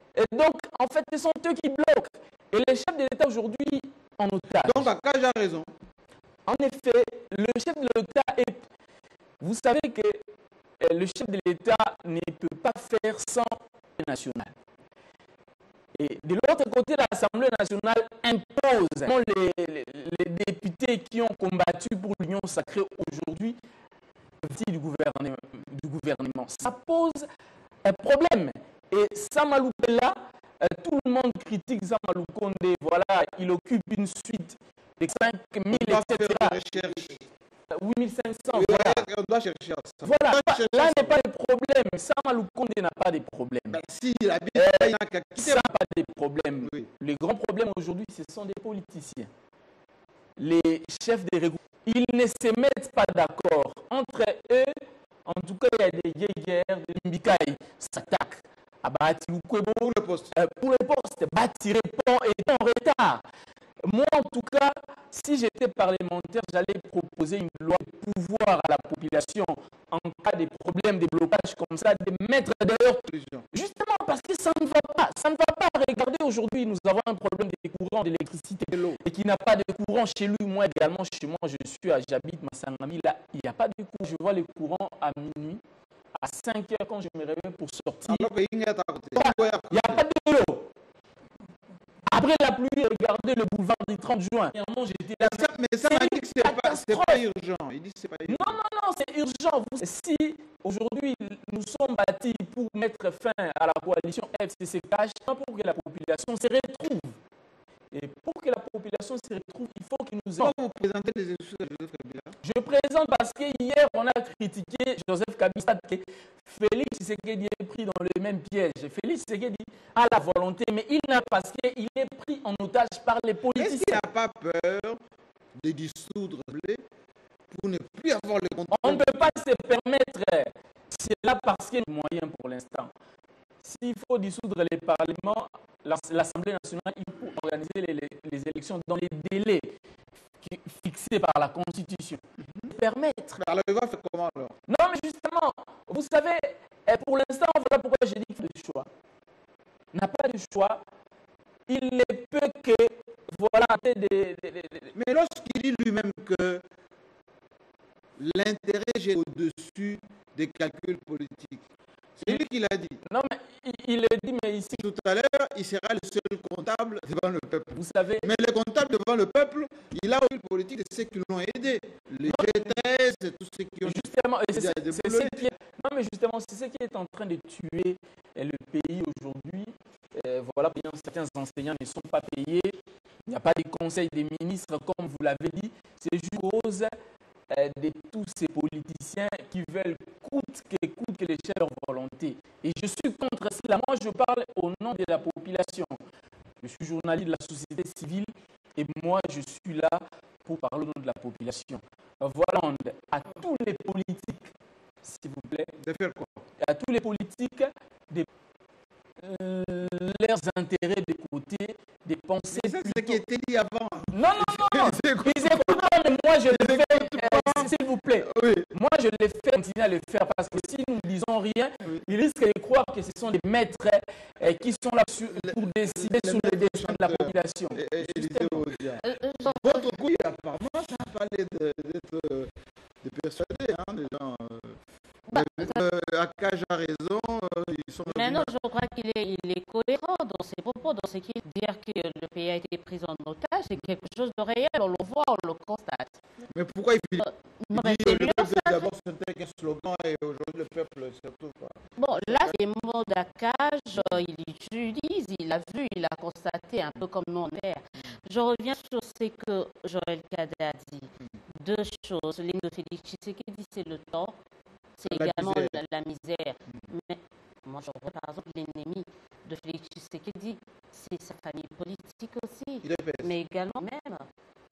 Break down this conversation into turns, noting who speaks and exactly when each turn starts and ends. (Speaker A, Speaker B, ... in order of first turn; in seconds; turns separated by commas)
Speaker A: 0.1-4.8, Speaker B: 4.6-5.7, Speaker A: 6.5-8.6, Speaker A: 9.4-10.2, Speaker A: 10.8-14.5, Speaker A: 15.9-23.6, Speaker A: 24.4-27.2, Speaker A: 27.8-36.9, Speaker B: 35.7-37.2, Speaker A: 37.7-39.0, Speaker B: 38.5-41.2, Speaker A: 40.0-43.8, Speaker B: 43.7-45.6, Speaker A: 44.5-49.3, Speaker B: 46.6-46.9, Speaker A: 50.4-54.7, Speaker A: 55.3-63.2, Speaker B: 59.8-60.3, Speaker A: 63.9-73.0, Speaker B: 73.1-73.5, Speaker A: 73.5-85.6, Speaker B: 78.7-79.0, Speaker A: 86.2-88.2, Speaker B: 88.0-90.0, Speaker A: 89.1-90.7, Speaker A: 92.1-97.2, Speaker B: 95.2-98.6, Speaker A: 98.3-107.2, Speaker A: 107.9-110.5, Speaker B: 110.4-112.3, Speaker A: 112.4-124.0, Speaker B: 123.5-125.0, Speaker B: 125.6-126.8, Speaker B: 127.5-129.4, Speaker A: 128.7-132.9, Speaker A: 133.6-139.7, Speaker A: 140.4-142.2, Speaker A: 142.7-143.4, Speaker B: 143.4-144.5, Speaker A: 144.7-148.9, Speaker A: 149.9-150.8, Speaker A: 151.7-154.9, Speaker B: 154.9-156.6, Speaker B: 158.2-161.6, Speaker B: 162.2-163.0, Speaker A: 163.1-164.8, Speaker B: 164.7-175.5, Speaker A: 167.8-168.2, Speaker A: 172.3-172.7, Speaker A: 173.8-182.7, Speaker A: 183.3-186.9, Speaker A: 187.5-196.0, Speaker A: 196.6-204.5, Speaker A: 205.0-205.7, Speaker B: 205.8-206.4, Speaker A: 206.6-208.3, Speaker A: 209.2-213.2, Speaker B: 212.5-218.7, Speaker A: 214.1-228.6, Speaker B: 225.3-232.5, Speaker C: 229.0-229.9, Speaker B: 233.0-234.8, Speaker C: 235.3-235.8, Speaker B: 235.3-238.5, Speaker C: 238.1-246.2, Speaker B: 246.5-252.6, Speaker C: 247.2-248.8, Speaker C: 252.0-264.4, Speaker C: 265.0-274.2, Speaker B: 265.1-265.8, Speaker B: 272.8-273.3